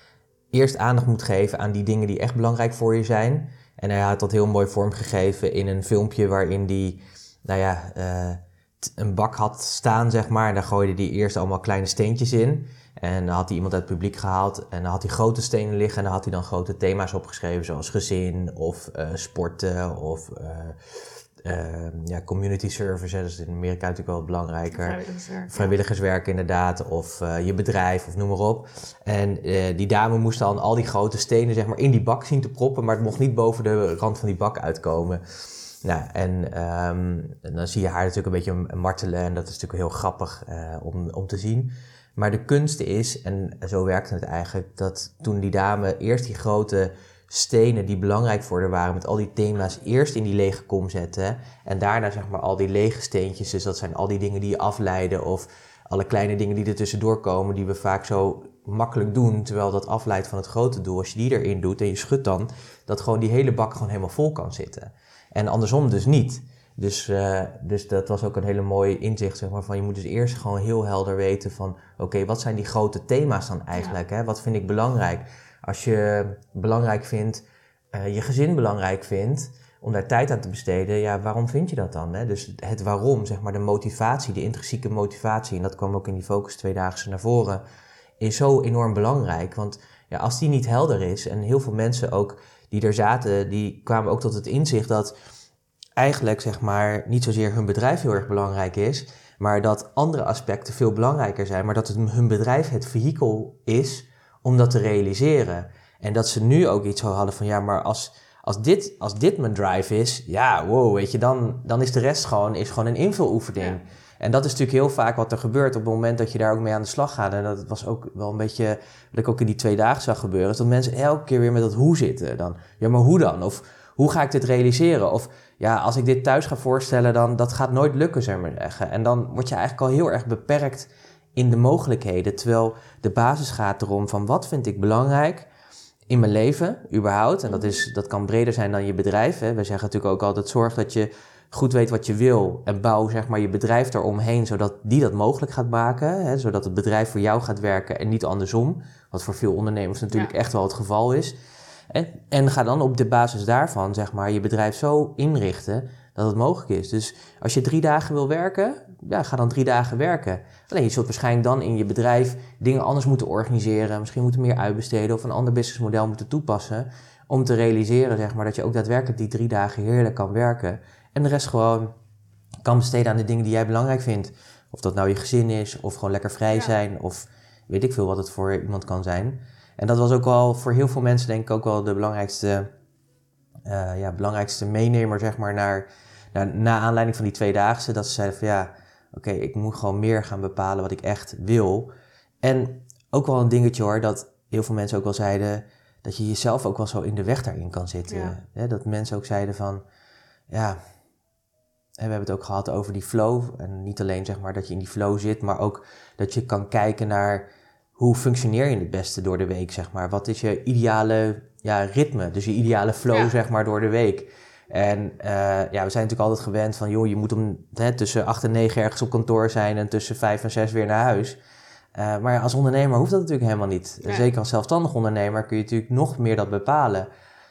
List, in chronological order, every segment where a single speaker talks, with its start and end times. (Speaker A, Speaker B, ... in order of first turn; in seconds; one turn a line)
Speaker A: 0.5-25.0
Speaker B: 24.7-25.8
Speaker A: 25.5-87.6
Speaker A: 88.2-95.1
Speaker A: 96.0-135.5
Speaker A: 136.1-151.3
Speaker B: 137.5-137.8
Speaker A: 151.9-171.9
Speaker A: 172.6-182.7
Speaker A: 183.6-191.9
Speaker A: 192.4-199.8
Speaker B: 198.1-198.4
Speaker A: 200.5-200.8
Speaker A: 202.0-207.4
Speaker A: 208.0-221.4
Speaker B: 213.1-213.3
Speaker A: 221.9-227.1